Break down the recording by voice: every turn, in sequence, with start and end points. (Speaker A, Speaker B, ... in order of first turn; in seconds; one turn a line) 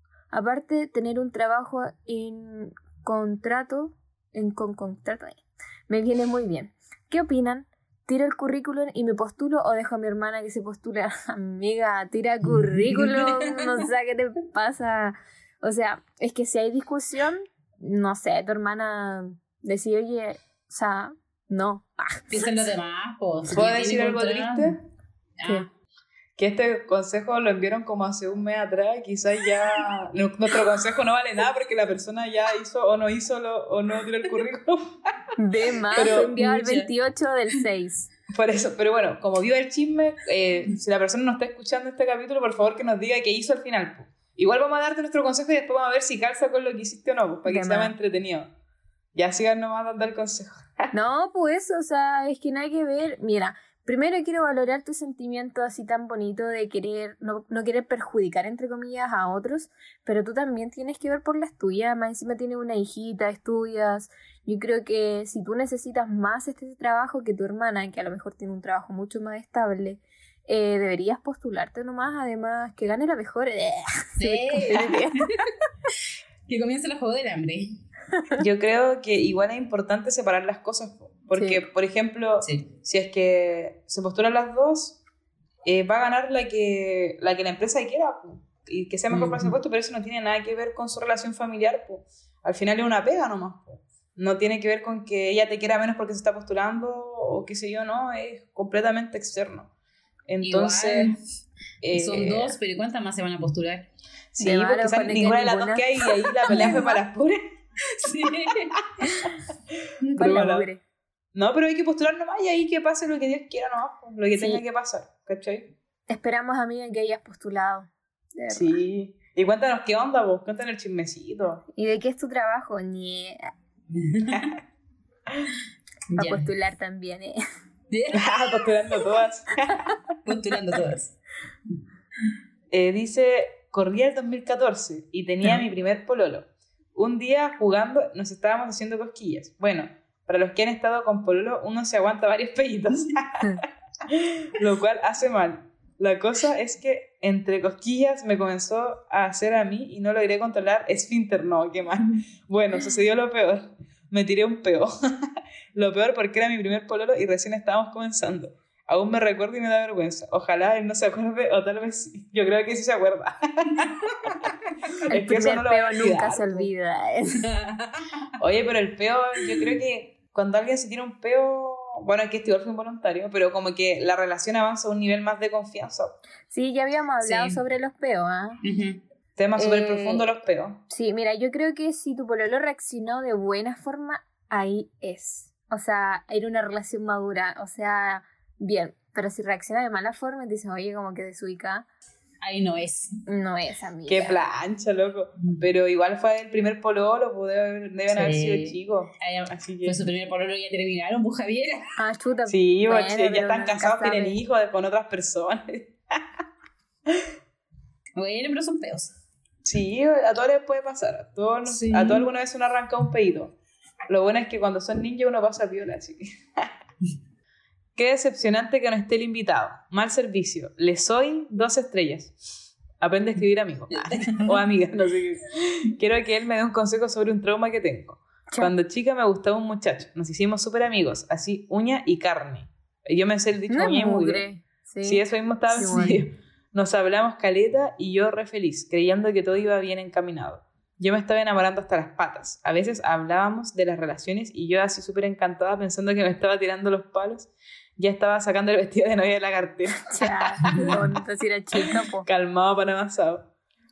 Speaker A: 0.3-22.5
Speaker B: 12.9-13.6
Speaker B: 22.3-24.8
Speaker C: 23.5-24.8
Speaker B: 25.4-25.7
Speaker C: 26.4-34.9
Speaker A: 35.4-38.1
Speaker C: 35.9-36.3
Speaker B: 36.0-36.9
Speaker C: 38.3-48.5
Speaker A: 47.5-47.9
Speaker C: 49.1-50.9
Speaker A: 50.9-75.5
Speaker B: 74.2-75.2
Speaker B: 76.5-77.7
Speaker C: 78.4-85.0
Speaker A: 81.3-81.6
Speaker B: 82.4-82.7
Speaker C: 85.6-99.7
Speaker B: 89.1-89.5
Speaker C: 100.3-101.2
Speaker B: 100.4-101.2
Speaker C: 101.8-102.6
Speaker B: 101.9-103.9
Speaker C: 104.3-107.4
Speaker A: 104.4-106.9
Speaker B: 106.5-106.9
Speaker B: 107.9-108.8
Speaker B: 110.0-110.5
Speaker C: 110.1-110.7
Speaker A: 110.2-110.8
Speaker C: 111.3-115.7
Speaker A: 114.3-114.6
Speaker A: 116.1-118.8
Speaker C: 118.5-121.7
Speaker A: 121.8-123.5
Speaker B: 124.0-124.5
Speaker B: 126.1-126.5
Speaker A: 126.2-127.4
Speaker B: 127.9-128.3
Speaker C: 128.1-129.8
Speaker B: 130.2-131.2
Speaker C: 132.7-154.9
Speaker C: 155.7-166.7
Speaker A: 165.1-167.5
Speaker B: 167.4-168.1
Speaker C: 168.4-176.2
Speaker A: 176.5-178.6
Speaker B: 177.2-177.6
Speaker B: 178.6-179.0
Speaker C: 179.4-180.8
Speaker A: 179.6-180.3
Speaker A: 180.9-191.9
Speaker B: 192.4-193.2
Speaker A: 193.3-194.4
Speaker C: 194.1-200.0
Speaker B: 198.1-201.9
Speaker A: 202.0-204.4
Speaker C: 202.5-206.2
Speaker B: 208.2-209.2
Speaker C: 209.6-213.5
Speaker B: 211.7-212.3
Speaker C: 214.1-216.7
Speaker C: 218.0-234.4
Speaker B: 223.9-224.6
Speaker A: 233.7-236.2
Speaker C: 235.0-251.0
Speaker A: 250.1-252.3
Speaker C: 252.2-253.5